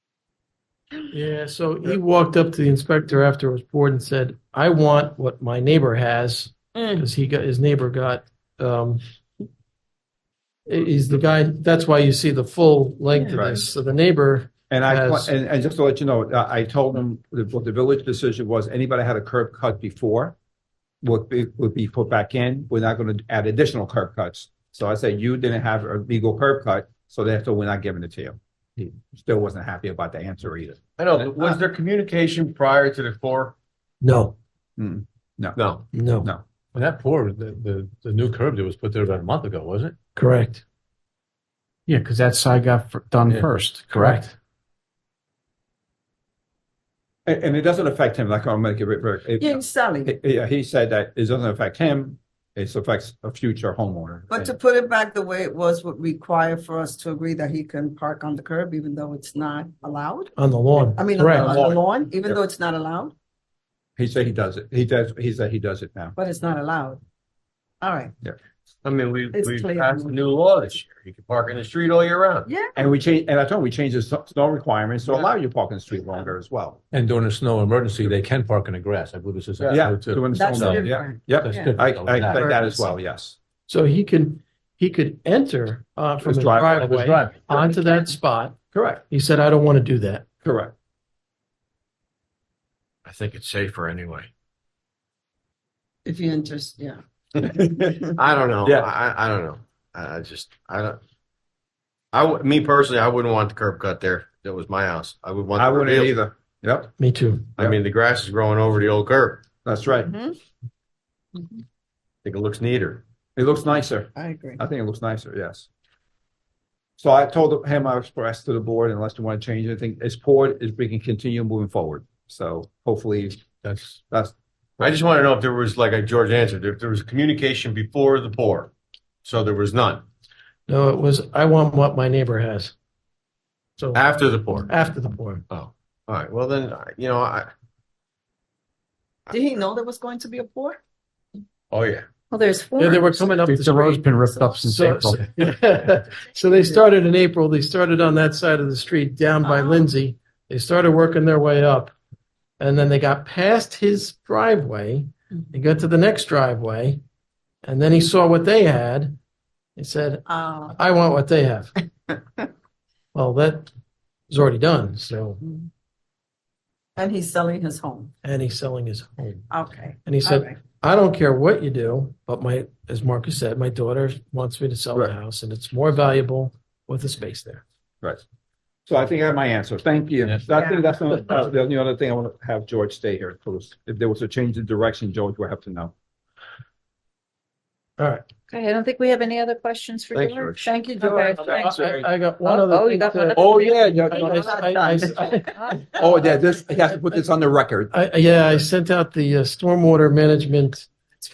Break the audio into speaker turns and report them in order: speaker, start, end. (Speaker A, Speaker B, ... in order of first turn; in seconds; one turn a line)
Speaker A: 1.1-9.0
Speaker B: 6.8-7.0
Speaker A: 10.7-15.3
Speaker C: 13.3-13.7
Speaker C: 14.7-20.4
Speaker C: 21.0-31.5
Speaker D: 31.0-33.5
Speaker A: 34.0-34.4
Speaker C: 34.8-35.6
Speaker D: 35.6-35.9
Speaker A: 35.9-36.3
Speaker E: 36.8-40.0
Speaker A: 40.2-40.6
Speaker F: 41.9-44.2
Speaker A: 43.9-44.3
Speaker C: 47.3-54.5
Speaker B: 49.4-50.1
Speaker B: 54.3-60.3
Speaker A: 60.4-61.5
Speaker B: 61.0-63.1
Speaker D: 61.4-61.8
Speaker C: 64.0-66.2
Speaker B: 66.2-67.0
Speaker B: 67.8-68.2
Speaker D: 68.8-72.5
Speaker B: 69.3-70.2
Speaker B: 72.5-72.9
Speaker C: 72.8-76.8
Speaker E: 76.9-82.6
Speaker D: 79.6-79.9
Speaker C: 79.7-83.4
Speaker B: 80.3-81.8
Speaker B: 82.3-82.9
Speaker A: 83.7-90.3
Speaker C: 86.2-86.8
Speaker E: 86.7-87.7
Speaker C: 90.4-90.7
Speaker D: 93.1-94.3
Speaker B: 96.0-97.0
Speaker C: 97.4-98.0
Speaker D: 98.2-101.0
Speaker C: 98.6-98.9
Speaker D: 102.1-106.2
Speaker C: 105.5-106.9
Speaker A: 107.0-107.6
Speaker D: 107.6-109.5
Speaker C: 109.7-110.1
Speaker B: 110.0-110.4
Speaker D: 112.2-113.0
Speaker C: 113.4-115.7
Speaker B: 114.2-114.6
Speaker C: 117.0-123.4
Speaker E: 123.6-124.0
Speaker C: 124.1-124.3
Speaker D: 124.8-128.7
Speaker D: 129.2-130.0
Speaker A: 130.7-132.7
Speaker A: 133.8-134.1
Speaker D: 133.9-134.7
Speaker A: 134.7-135.4
Speaker D: 135.5-137.5
Speaker B: 139.3-140.8
Speaker D: 141.7-142.1
Speaker G: 142.3-143.3
Speaker A: 142.8-144.1
Speaker F: 143.3-145.3
Speaker A: 144.7-151.9
Speaker B: 149.4-149.9
Speaker A: 152.6-157.0
Speaker A: 157.6-159.2
Speaker A: 159.8-161.8
Speaker B: 160.3-160.8
Speaker A: 163.1-163.7
Speaker A: 164.3-165.4
Speaker B: 167.0-168.1
Speaker A: 168.2-169.5
Speaker B: 169.5-170.6
Speaker A: 170.1-177.6
Speaker C: 178.9-185.9
Speaker B: 180.5-180.8
Speaker A: 188.0-188.2
Speaker G: 188.5-193.8
Speaker D: 190.2-190.7
Speaker C: 191.0-192.0
Speaker A: 191.4-195.8
Speaker C: 193.4-194.5
Speaker B: 194.1-196.0
Speaker C: 195.9-197.9
Speaker A: 197.9-200.9